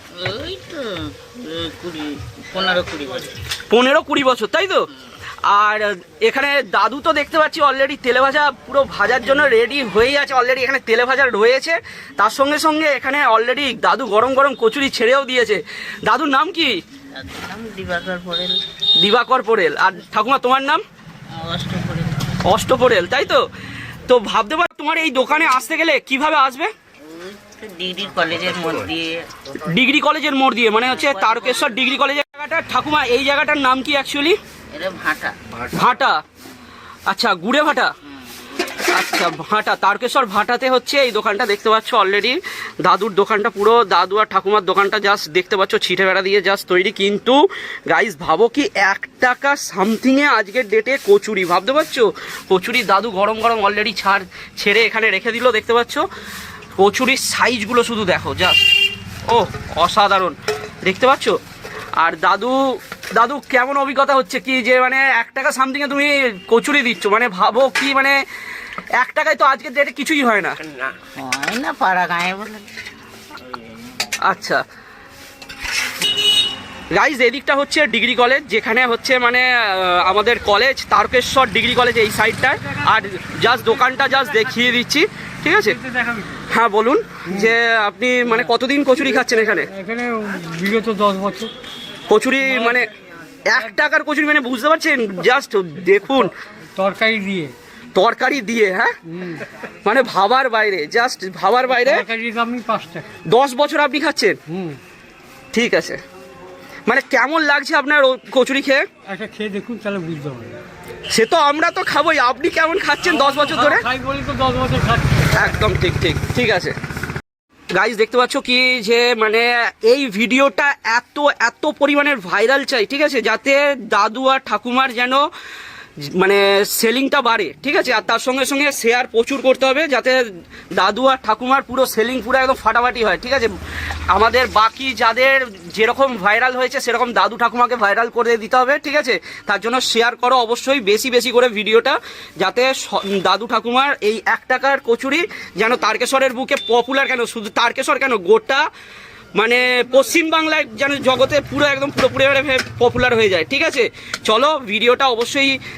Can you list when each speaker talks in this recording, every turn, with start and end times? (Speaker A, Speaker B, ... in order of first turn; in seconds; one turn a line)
Speaker A: 0.2-3.4
Speaker B: 3.7-4.9
Speaker B: 5.5-16.8
Speaker A: 17.1-18.7
Speaker B: 19.0-20.8
Speaker A: 21.3-22.4
Speaker B: 22.4-23.5
Speaker B: 24.1-26.7
Speaker A: 27.0-29.3
Speaker B: 29.5-34.4
Speaker A: 30.9-31.8
Speaker A: 34.7-35.4
Speaker B: 35.6-36.2
Speaker B: 37.1-37.9
Speaker B: 38.8-56.1
Speaker B: 56.8-58.7
Speaker B: 59.3-61.4
Speaker B: 62.0-68.2
Speaker B: 69.0-70.6
Speaker A: 71.2-72.7
Speaker B: 74.2-74.6
Speaker B: 76.9-85.8
Speaker C: 85.6-86.4
Speaker B: 86.5-89.7
Speaker C: 89.7-91.5
Speaker B: 92.1-92.9
Speaker C: 92.5-92.8
Speaker B: 93.5-96.3
Speaker C: 96.8-97.5
Speaker B: 98.0-99.0
Speaker C: 99.1-99.5
Speaker B: 99.8-102.1
Speaker C: 101.7-103.1
Speaker B: 103.3-104.4
Speaker C: 104.5-104.8
Speaker B: 105.5-106.0
Speaker B: 106.9-108.9
Speaker C: 109.1-110.6
Speaker B: 111.1-113.9
Speaker C: 113.1-115.3
Speaker B: 115.3-116.8
Speaker B: 117.7-125.3
Speaker B: 126.1-130.2
Speaker B: 130.8-133.5
Speaker B: 134.1-148.7
Speaker B: 149.4-155.6